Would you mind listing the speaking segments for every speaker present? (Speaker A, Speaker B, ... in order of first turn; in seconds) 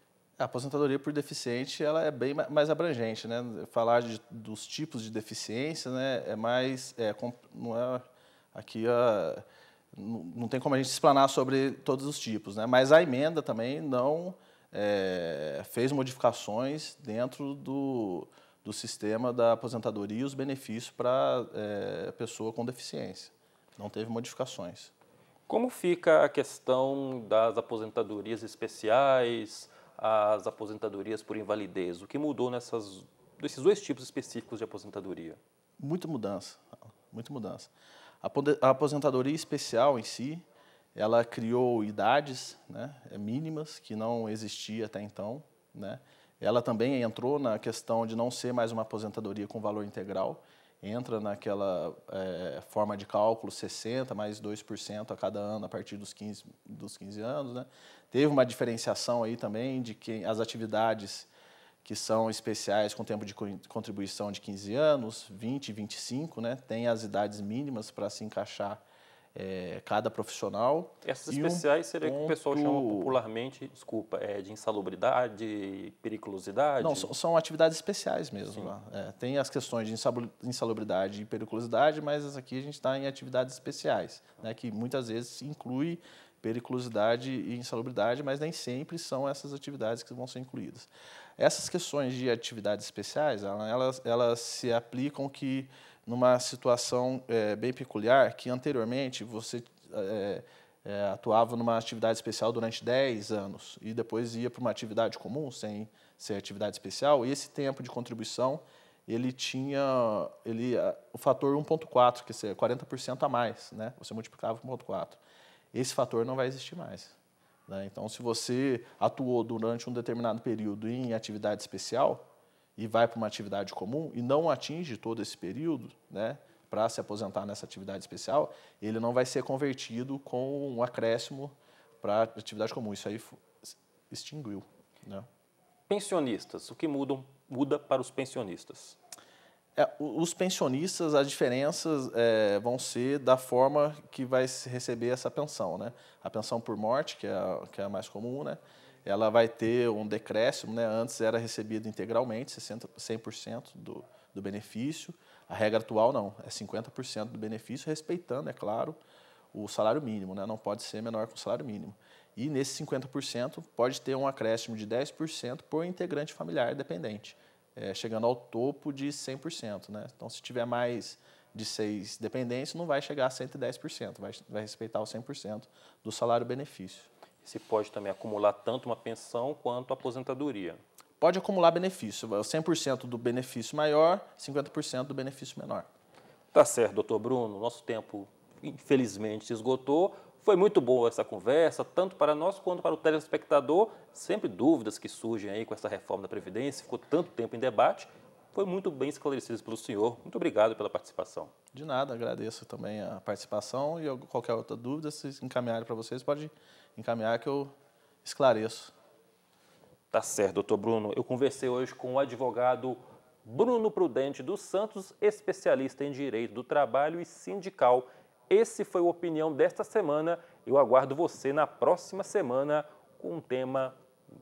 Speaker A: 0.4-24.9, 35.8-37.7, 38.2-40.4, 40.9-61.3, 61.8-68.8, 69.3-73.2, 76.8-115.2, 115.7-117.2, 117.7-122.2, 122.8-135.3, 139.8-159.0, 159.5-177.1, 181.2-185.9, 201.7-207.7, 208.2-208.9
Speaker B: 25.5-35.4, 71.0-77.1, 135.9-139.0, 177.4-180.8, 186.5-201.5, 210.1-224.0